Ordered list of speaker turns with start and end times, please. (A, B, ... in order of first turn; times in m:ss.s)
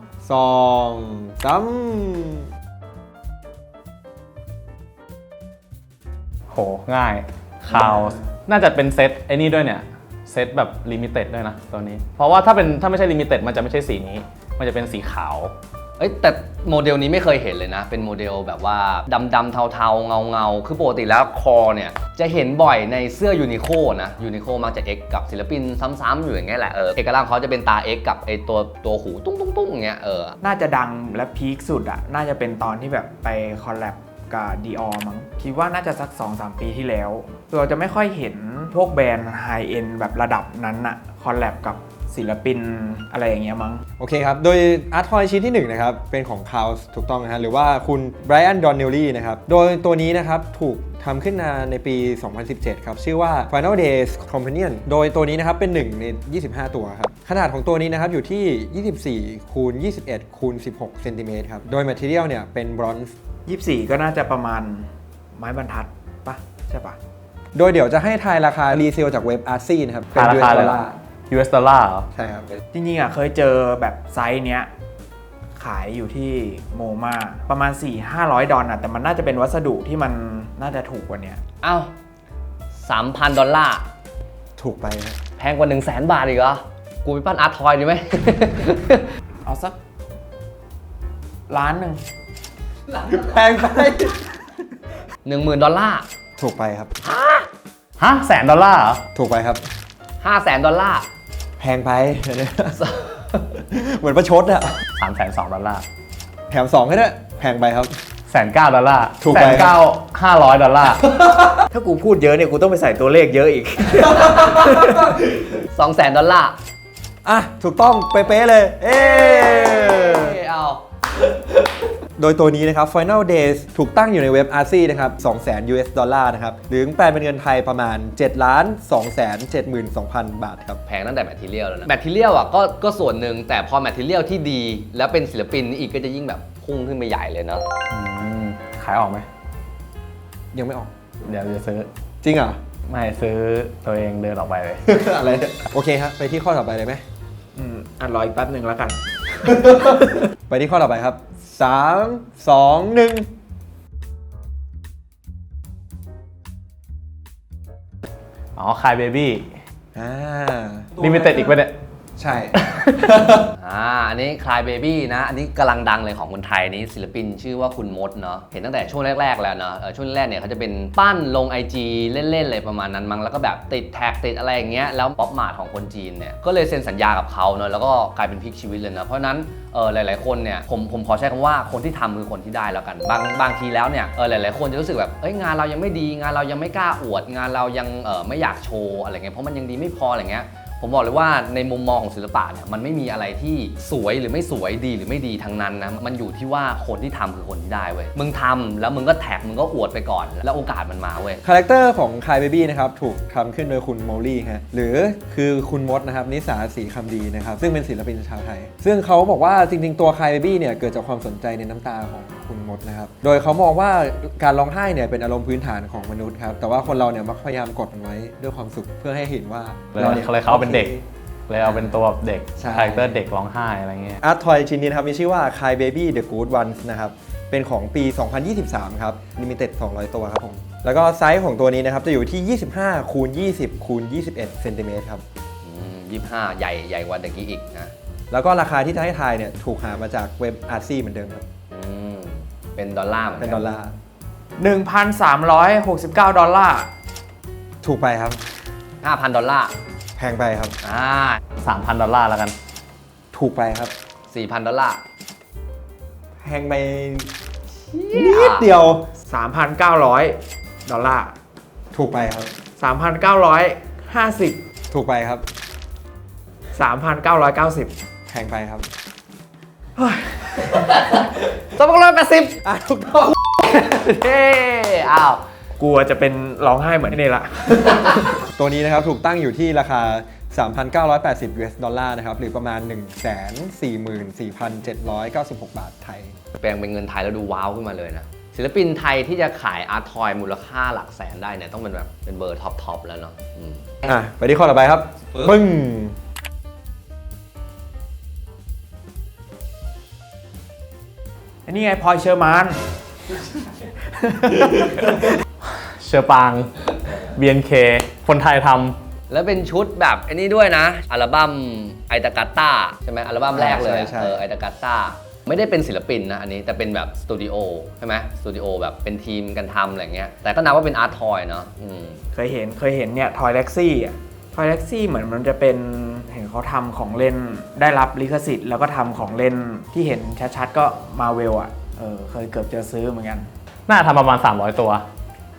0:00.2-0:02.5 A
0:06.5-0:15.5 B
0:16.0-0:30.4 C
0:30.4-0:43.8 D
0:44.0-1:03.1 A
1:03.5-1:07.0 D
1:07.5-1:11.0 A
1:10.2-1:12.1 B
1:12.2-1:12.5 A
1:12.7-1:14.7 D
1:15.6-1:21.4 D
1:21.6-1:21.9 C
1:22.7-1:23.8 C
1:24.6-1:25.2 A
1:25.4-1:29.1 C
1:29.4-1:29.8 D
1:31.5-1:32.0 D
1:33.0-1:34.2 A
1:35.2-1:36.0 C
1:36.4-1:36.9 A
1:37.0-1:37.5 C
1:38.0-1:39.0 B
1:39.1-1:39.6 A
1:40.2-1:41.1 C
1:41.6-1:44.8 A
1:42.8-1:43.0 C
1:45.0-1:45.8 B
1:46.5-1:47.9 A
1:48.3-1:51.0 B
1:49.2-1:49.8 A
1:50.9-1:51.7 A
1:51.7-1:55.1 D
1:54.2-1:55.1 A
1:55.7-1:56.5 C
1:57.2-2:00.4 A
1:58.9-2:00.8 C
2:02.2-2:10.8 A
2:10.9-2:17.6 C
2:17.9-2:19.2 B
2:20.5-2:20.9 A
2:21.2-2:21.9 B
2:22.2-2:22.6 A
2:22.9-2:24.8 B
2:24.8-2:27.0 A
2:27.6-2:29.0 D
2:29.4-2:33.3 A
2:38.6-2:39.6 B
2:40.0-2:41.3 A
2:41.0-2:41.7 B
2:42.2-2:43.5 A
2:42.6-2:43.0 B
2:43.6-3:21.4 C
3:21.4-3:41.0 A
3:40.0-3:40.9 B
3:41.5-3:44.2 B
3:41.6-3:41.9 A
3:42.6-3:43.2 A
3:44.2-3:55.2 A
3:55.6-3:57.9 C
3:58.3-4:01.5 A
4:01.7-4:03.6 C
4:03.4-4:04.0 A
4:04.6-4:06.9 D
4:07.8-4:08.4 A
4:09.0-4:09.7 C
4:10.2-4:10.7 A
4:10.8-4:11.4 C
4:11.6-4:12.5 B
4:13.3-4:13.9 A
4:14.3-4:15.0 C
4:16.4-4:17.3 A
4:17.9-4:18.7 C
4:18.1-4:19.1 A
4:19.3-4:21.4 D
4:21.9-4:22.5 A
4:22.8-4:24.6 D
4:24.9-4:25.4 A
4:26.8-4:27.9 D
4:28.3-4:28.9 A
4:30.0-4:30.8 D
4:31.0-4:32.6 C
4:32.6-4:33.4 A
4:33.6-4:35.4 C
4:35.8-4:38.3 D
4:38.5-4:46.3 A
4:46.6-4:54.0 C
4:54.0-4:56.1 A
5:01.6-5:02.8 D
5:04.2-5:05.1 D
5:05.6-5:09.0 B
5:09.3-5:22.2 C
5:13.5-5:14.4 A
5:22.3-5:33.5 D
5:33.9-5:35.0 B